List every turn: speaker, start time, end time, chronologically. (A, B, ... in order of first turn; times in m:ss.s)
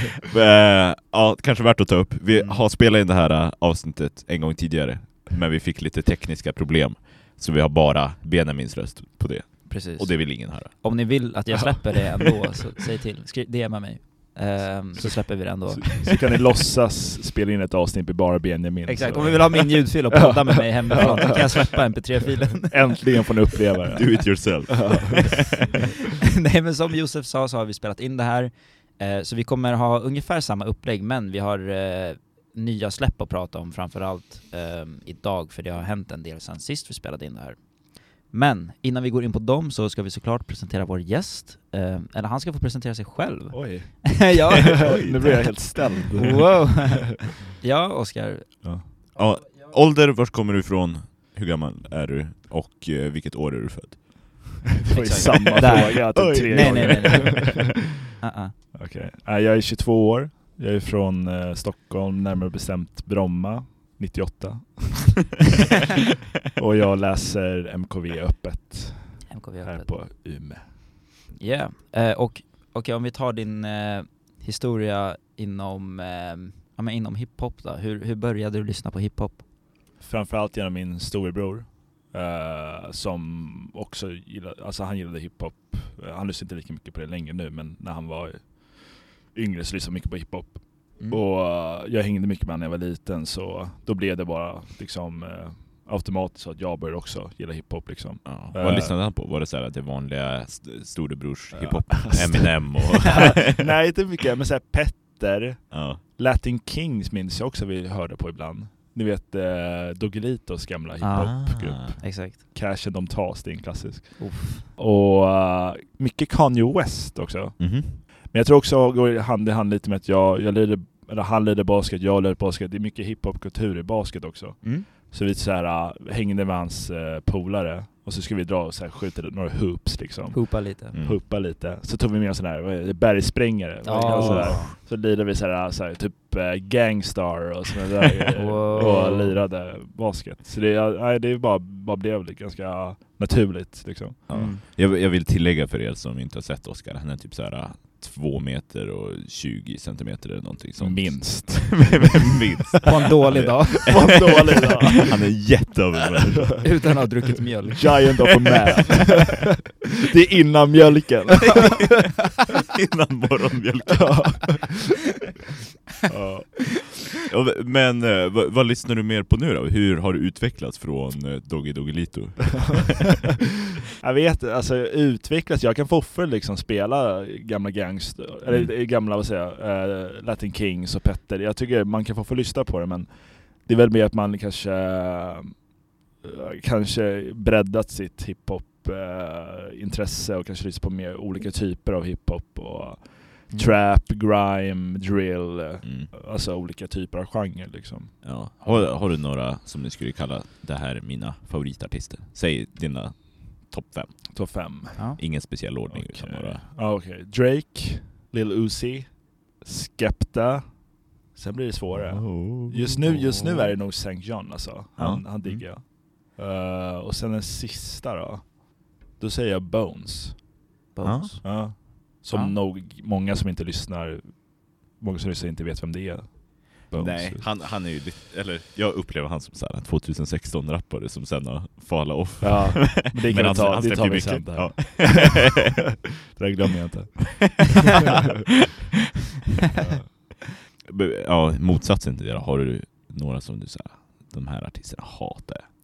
0:00.3-0:11.3 A
0:02.3-0:02.6 B
0:09.7-0:16.1 B
0:15.0-0:22.0 C
0:18.8-0:23.1 B
0:22.7-0:25.2 C
0:24.0-0:25.8 A
0:26.4-0:45.4 B
0:43.5-0:46.9 C
0:44.8-0:45.9 A
0:46.2-0:48.6 B
0:49.1-0:57.5 A
0:54.9-0:57.6 C
0:54.9-0:58.5 B
0:58.7-1:05.3 C
1:06.6-1:10.7 C
1:09.3-1:10.0 B
1:11.4-1:19.4 B
1:20.0-1:39.0 C
1:38.2-1:43.6 A
1:41.5-2:24.5 C
1:45.7-1:46.0 A
1:51.0-1:52.4 B
1:51.1-1:52.0 A
1:54.2-1:54.6 B
1:57.6-1:58.0 A
2:04.6-2:04.9 B
2:10.3-2:10.9 B
2:10.9-2:11.2 A
2:13.8-2:14.8 B
2:14.1-2:14.7 A
2:18.3-2:19.4 B
2:24.3-2:36.7 A
2:24.3-2:24.6 B
2:30.8-2:32.2 C
2:32.8-2:34.2 B
2:33.9-2:35.1 C
2:36.6-2:37.9 B
2:37.8-2:39.2 C
2:40.1-2:41.9 C
2:42.6-2:44.6 A
2:43.9-2:44.6 C
2:46.1-2:46.8 C
2:47.3-2:53.2 A
2:54.0-3:05.7 C
2:58.5-2:58.7 A
3:06.2-3:18.8 C
3:13.5-3:13.8 B
3:15.8-3:16.1 A
3:18.2-3:26.6 A
3:24.3-3:25.2 C
3:25.9-3:40.4 C
3:31.9-3:33.8 A
3:35.0-3:35.6 A
3:40.9-3:42.6 B
3:41.0-3:41.4 A
3:41.4-3:47.5 C
3:47.0-3:55.6 A
3:52.4-3:55.5 C
3:56.3-3:57.7 C
3:57.9-3:58.4 A
3:59.8-4:00.0 C
4:00.9-4:05.6 A